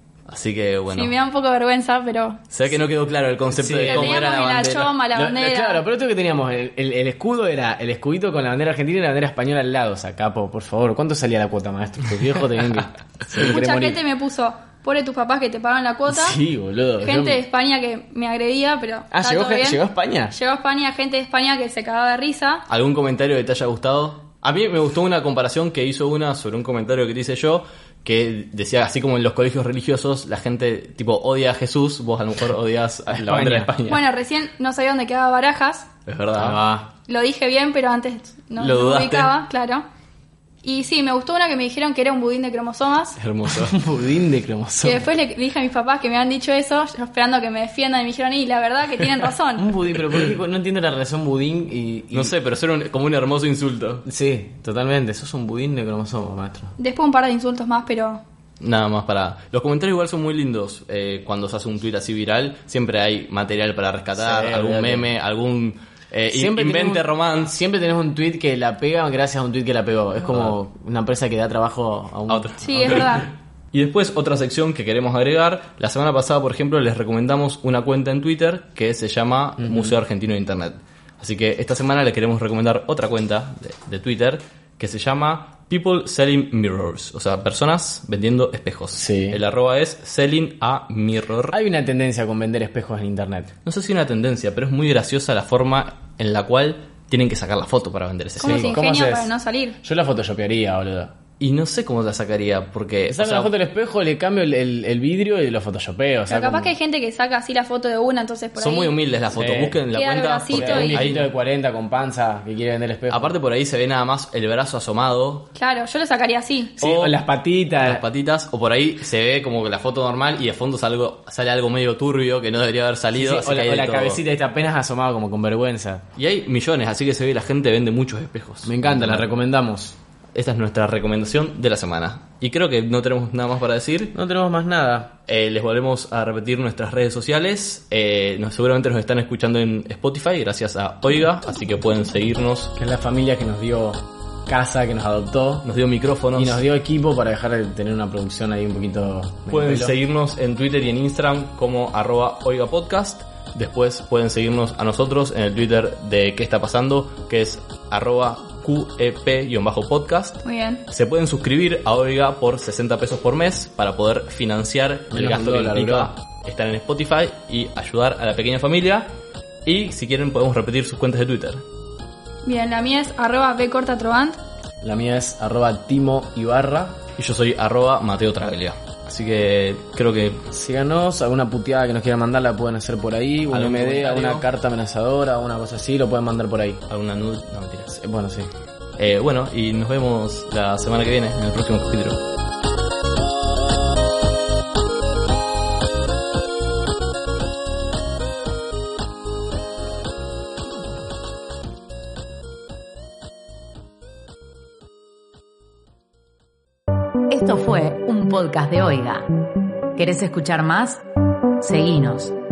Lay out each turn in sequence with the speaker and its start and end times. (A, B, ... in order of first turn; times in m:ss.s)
0:00.3-0:01.1 A
0:00.9-0:02.4 B
0:02.5-0:05.0 A
0:03.5-0:04.3 C
0:03.9-0:05.8 B
0:05.1-0:14.0 C
0:13.4-0:16.4 B
0:16.1-0:17.4 C
0:17.0-0:22.6 B
0:19.1-0:20.3 C
0:22.7-0:34.0 A
0:33.1-0:33.7 C
0:33.8-0:35.9 B
0:36.0-0:36.6 A
0:36.3-0:36.9 C
0:37.1-0:39.8 B
0:38.6-0:39.3 A
0:40.6-0:43.2 B
0:43.2-0:43.8 A
0:43.5-0:45.1 C
0:44.8-0:49.7 B
0:49.6-0:52.3 C
0:52.1-0:54.0 A
0:54.0-0:56.7 C
0:56.8-0:58.2 B
0:58.6-1:07.5 A
1:04.2-1:05.1 C
1:06.3-1:13.1 C
1:10.3-1:10.5 A
1:12.3-1:31.6 A
1:12.6-1:13.3 B
1:19.6-1:20.0 C
1:28.9-1:29.4 C
1:31.5-1:33.5 C
1:33.6-1:38.7 A
1:38.4-1:39.8 B
1:38.4-1:39.3 C
1:39.8-1:41.1 C
1:41.4-1:43.5 A
1:43.1-1:46.7 C
1:46.3-1:48.9 B
1:48.6-1:51.3 A
1:49.3-1:49.8 C
1:49.9-1:51.0 B
1:50.5-1:53.4 C
1:53.1-1:55.5 A
1:55.5-1:56.8 B
1:56.8-1:58.0 C
1:56.8-1:57.1 A
1:57.8-2:04.2 A
2:03.1-2:06.0 C
2:06.2-2:09.3 A
2:08.6-2:10.0 C
2:10.3-2:14.1 A
2:14.1-2:15.1 C
2:15.3-2:22.7 A
2:22.8-2:25.6 C
2:25.6-2:26.6 A
2:26.3-2:30.0 C
2:29.5-2:49.1 A
2:40.4-2:40.8 B
2:45.1-2:46.1 C
2:49.6-2:51.6 A
2:52.4-2:54.4 B
2:54.8-2:57.0 C
2:57.2-3:00.4 A
3:00.5-3:06.8 C
3:03.5-3:04.4 A
3:06.9-3:07.9 A
3:07.9-3:08.5 C
3:09.0-3:12.2 A
3:27.3-3:29.4 D
3:29.9-3:31.0 D
3:31.6-3:32.4 D